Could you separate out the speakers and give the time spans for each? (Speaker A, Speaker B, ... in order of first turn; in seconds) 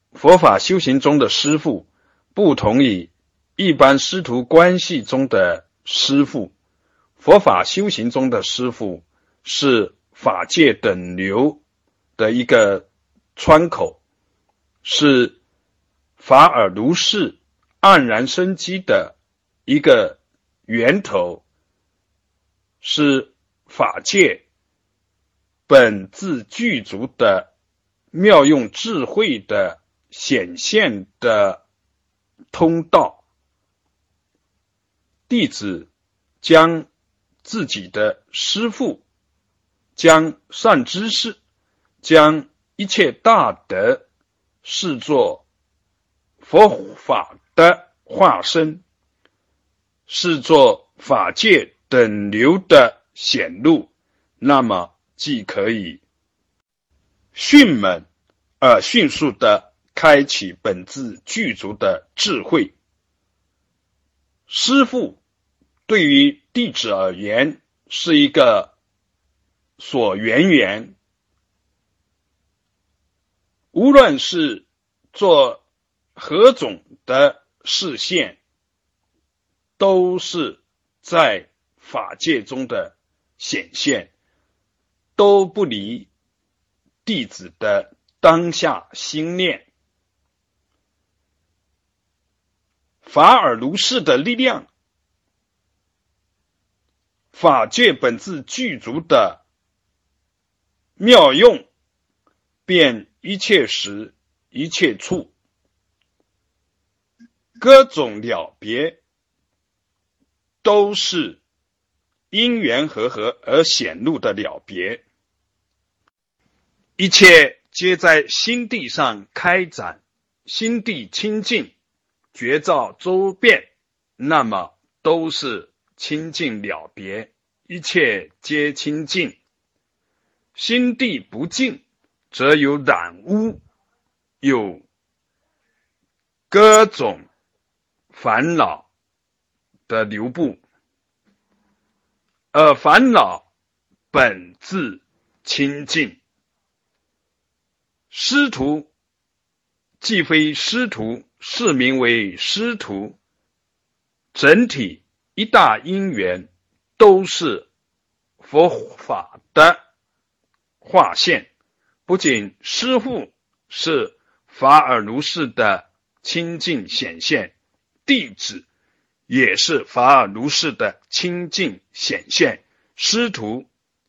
Speaker A: 0.1-6.5, 7.2-11.6, 12.2-14.0, 14.8-15.4, 16.2-19.1, 19.7-21.4, 22.8-24.4, 25.7-27.5, 28.1-31.6, 32.5-33.2, 35.3-35.9, 36.4-36.9, 37.5-39.0, 40.0-41.4, 42.0-44.0, 44.6-45.5, 46.4-48.8, 50.1-56.0, 57.3-58.1, 58.6-62.7, 64.5-65.2, 65.9-68.7, 69.8-70.9, 73.7-75.6, 76.2-78.4, 79.8-84.1, 85.2-86.1, 87.0-89.7, 93.0-94.7, 97.3-99.4, 101.0-101.7, 102.7-105.3, 107.6-109.0, 110.6-111.4, 112.3-115.0, 117.0-121.7, 122.3-129.4, 130.6-133.6, 134.4-134.8, 136.5-137.3, 138.1-138.9, 139.9-140.6, 142.5-143.4, 144.1-146.2, 148.1-148.9, 150.0-153.2, 154.3-157.7, 158.4-159.8, 160.8-161.5, 162.1-167.5, 168.1-168.7, 169.3-173.7